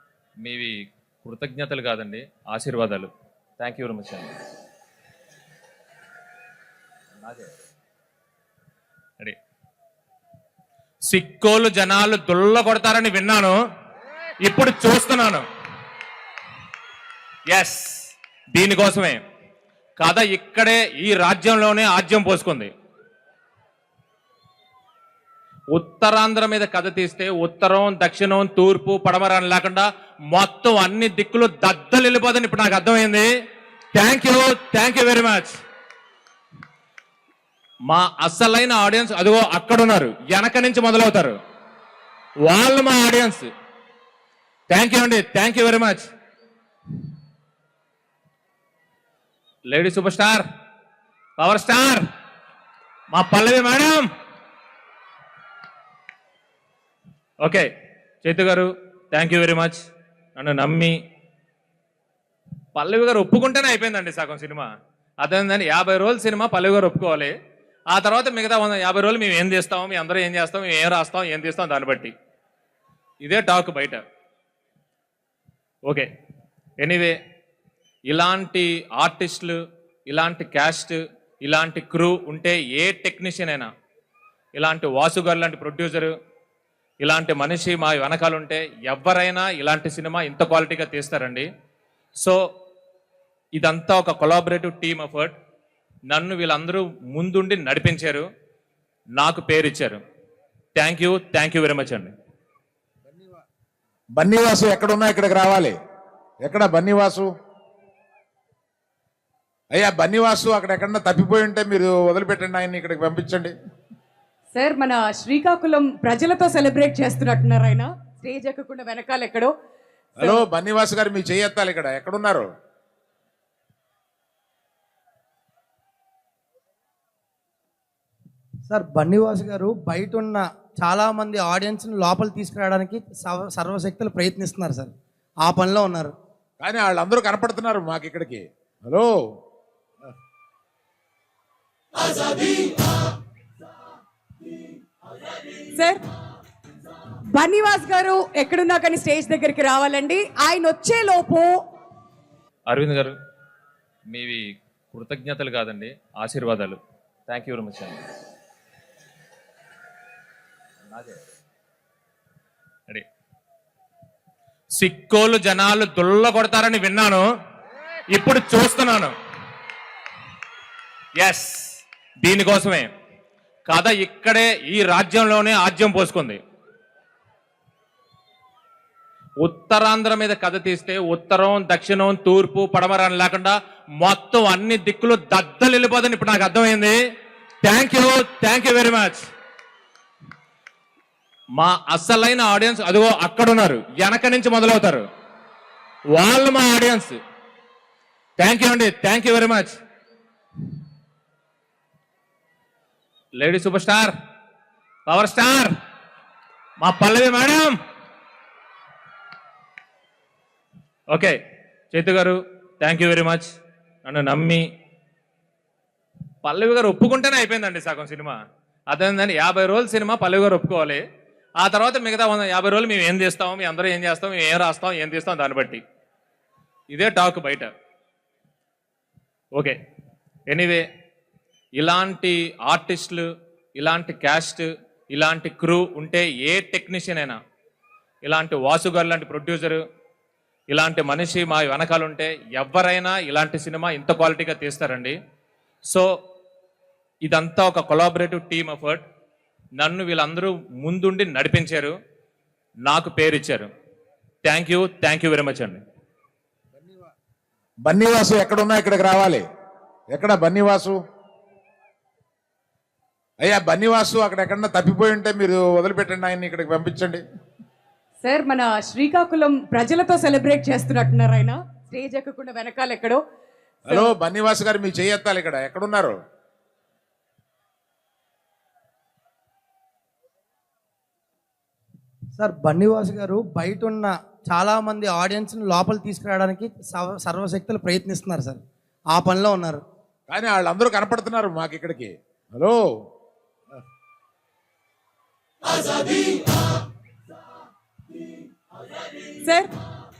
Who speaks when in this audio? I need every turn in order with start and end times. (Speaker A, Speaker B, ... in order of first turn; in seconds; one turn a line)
Speaker A: 0.4-4.3
Speaker A: 11.1-13.6
Speaker A: 14.4-15.4
Speaker A: 17.5-19.2
Speaker A: 20.0-22.7
Speaker A: 25.7-33.3
Speaker A: 33.9-35.6
Speaker A: 37.9-41.4
Speaker A: 42.4-43.5
Speaker A: 44.7-46.1
Speaker A: 49.7-50.5
Speaker A: 51.4-52.0
Speaker A: 53.1-54.1
Speaker A: 57.4-57.7
Speaker A: 58.2-59.8
Speaker A: 60.4-61.0
Speaker A: 62.7-64.7
Speaker A: 65.2-67.3
Speaker A: 67.9-72.1
Speaker A: 73.2-74.0
Speaker A: 76.8-77.2
Speaker A: 78.1-83.7
Speaker A: 84.5-86.1
Speaker A: 87.0-91.5
Speaker A: 93.5-95.3
Speaker A: 96.1-98.3
Speaker A: 99.2-100.0
Speaker A: 100.7-102.1
Speaker B: 104.2-105.7
Speaker B: 106.4-107.3
Speaker B: 109.7-113.5
Speaker C: 114.5-119.5
Speaker B: 120.2-122.5
Speaker D: 128.7-134.9
Speaker D: 135.4-136.1
Speaker B: 136.6-139.1
Speaker C: 145.6-146.0
Speaker C: 147.3-151.6
Speaker A: 152.7-153.2
Speaker A: 154.1-158.0
Speaker A: 164.7-167.2
Speaker A: 168.1-169.1
Speaker A: 171.2-172.9
Speaker A: 173.7-176.4
Speaker A: 179.4-187.0
Speaker A: 187.6-189.2
Speaker A: 191.6-195.1
Speaker A: 196.1-197.2
Speaker A: 198.4-199.8
Speaker A: 203.3-204.1
Speaker A: 205.1-205.7
Speaker A: 206.8-207.8
Speaker A: 211.1-211.4
Speaker A: 211.9-213.5
Speaker A: 214.0-214.7
Speaker A: 216.4-218.4
Speaker A: 218.9-221.0
Speaker A: 221.6-225.8
Speaker A: 226.9-227.7
Speaker A: 230.5-230.8
Speaker A: 231.7-237.4
Speaker A: 238.2-239.8
Speaker A: 240.7-245.2
Speaker A: 247.2-249.0
Speaker A: 249.7-251.9
Speaker A: 252.8-253.7
Speaker A: 254.4-255.8
Speaker B: 257.9-259.4
Speaker B: 260.1-261.0
Speaker B: 263.4-267.2
Speaker C: 268.2-273.2
Speaker B: 273.9-276.2
Speaker D: 282.4-289.8
Speaker B: 290.3-292.8
Speaker C: 299.3-299.7